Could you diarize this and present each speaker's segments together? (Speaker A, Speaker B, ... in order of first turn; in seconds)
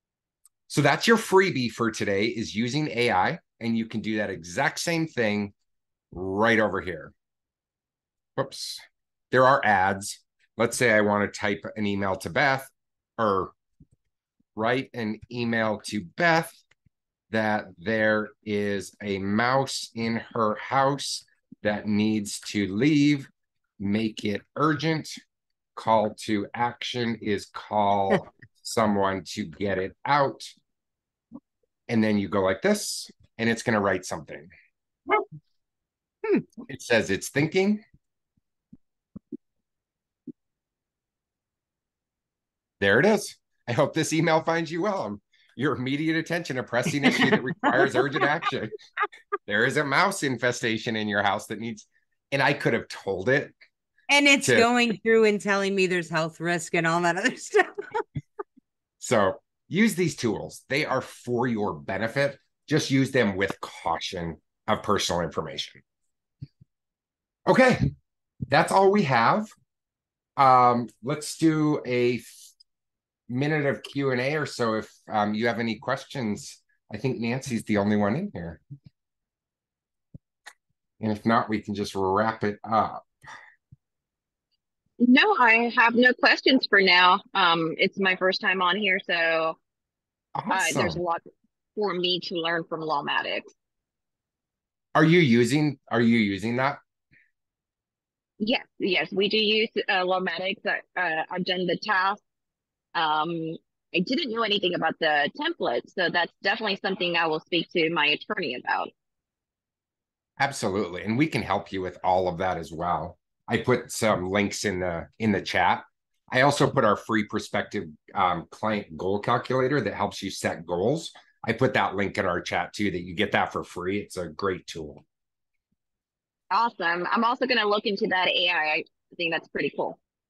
Speaker A: 0.7-5.5, 6.1-7.1, 8.4-13.5, 14.6-16.6, 17.3-25.2, 25.8-30.5, 31.9-34.5, 36.6-37.8, 42.8-48.7, 49.5-53.5, 54.4-54.7, 59.0-65.8, 67.5-67.9, 68.5-69.5, 70.4-72.3, 73.3-78.6, 81.0-83.0, 90.4-91.0, 95.0-96.8, 110.4-125.0
Speaker B: 47.7-48.3, 54.1-58.0
Speaker C: 85.0-89.6, 90.5-91.2, 91.8-93.5, 98.4-102.2, 103.0-108.9, 126.5-130.0